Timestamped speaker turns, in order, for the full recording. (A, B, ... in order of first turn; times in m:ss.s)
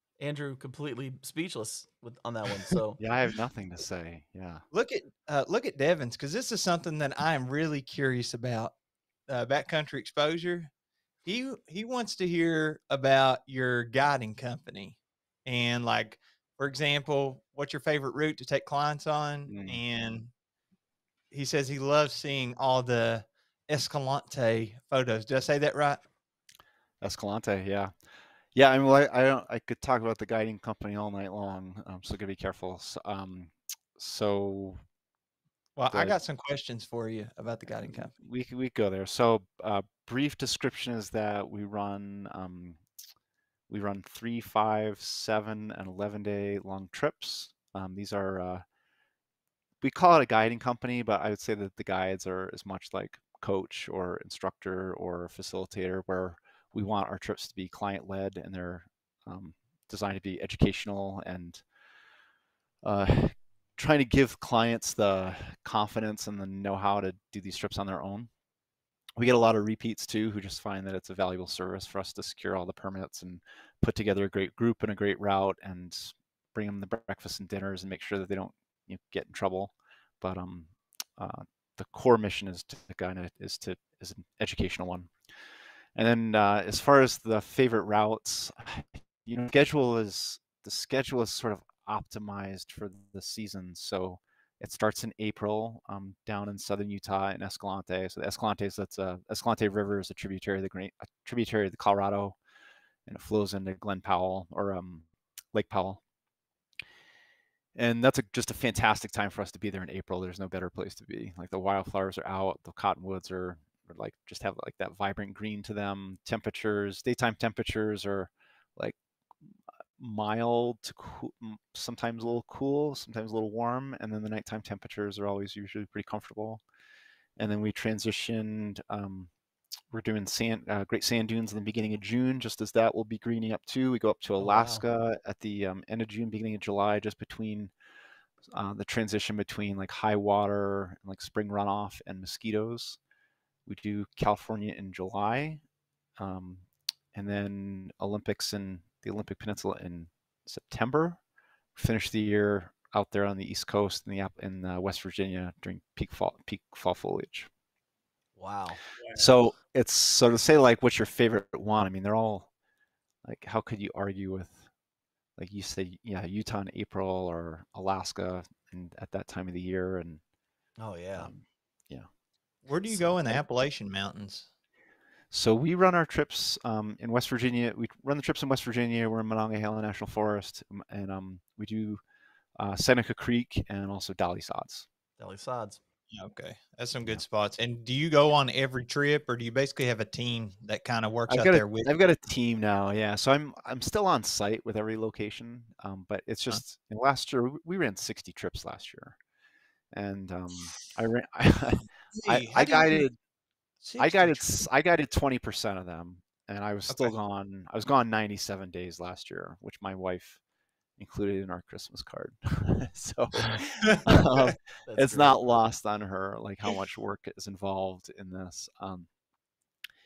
0:00.2-0:03.0 A
0:03.0-0:04.6 B
0:04.7-0:08.7 C
0:09.3-0:10.7 C
0:11.2-0:20.3 C
0:19.5-0:19.8 B
0:21.3-0:26.0 C
0:27.0-0:27.9 B
0:28.5-0:34.8 B
0:35.8-0:38.1 C
0:35.9-0:36.2 B
0:37.8-0:42.8 B
0:43.7-0:48.6 B
0:49.8-1:01.6 B
1:02.8-1:08.3 B
1:09.2-1:25.1 B
1:26.0-1:42.4 B
1:43.1-1:46.0 B
1:47.8-1:59.0 B
2:00.0-2:06.6 B
2:07.4-2:09.3 B
2:09.9-2:17.7 B
2:14.4-2:14.8 A
2:18.5-2:23.0 B
2:23.7-2:25.6 B
2:26.2-2:31.2 B
2:31.8-2:37.5 B
2:38.4-2:38.8 A
2:39.0-2:39.3 C
2:39.1-2:42.5 B
2:43.2-2:44.6 B
2:45.4-2:50.2 B
2:50.8-2:51.3 A
2:51.2-2:52.1 B
2:52.7-2:54.5 C
2:52.9-2:53.4 B
2:55.3-3:02.0 B
3:02.6-3:04.9 B
3:05.2-3:05.8 A
3:06.1-3:11.9 C
3:11.3-3:19.2 B
3:19.9-3:23.2 B
3:22.2-3:23.0 C
3:23.8-3:24.6 C
3:24.0-3:30.4 B
3:31.0-3:39.1 B
3:33.8-3:34.3 C
3:34.9-3:35.6 A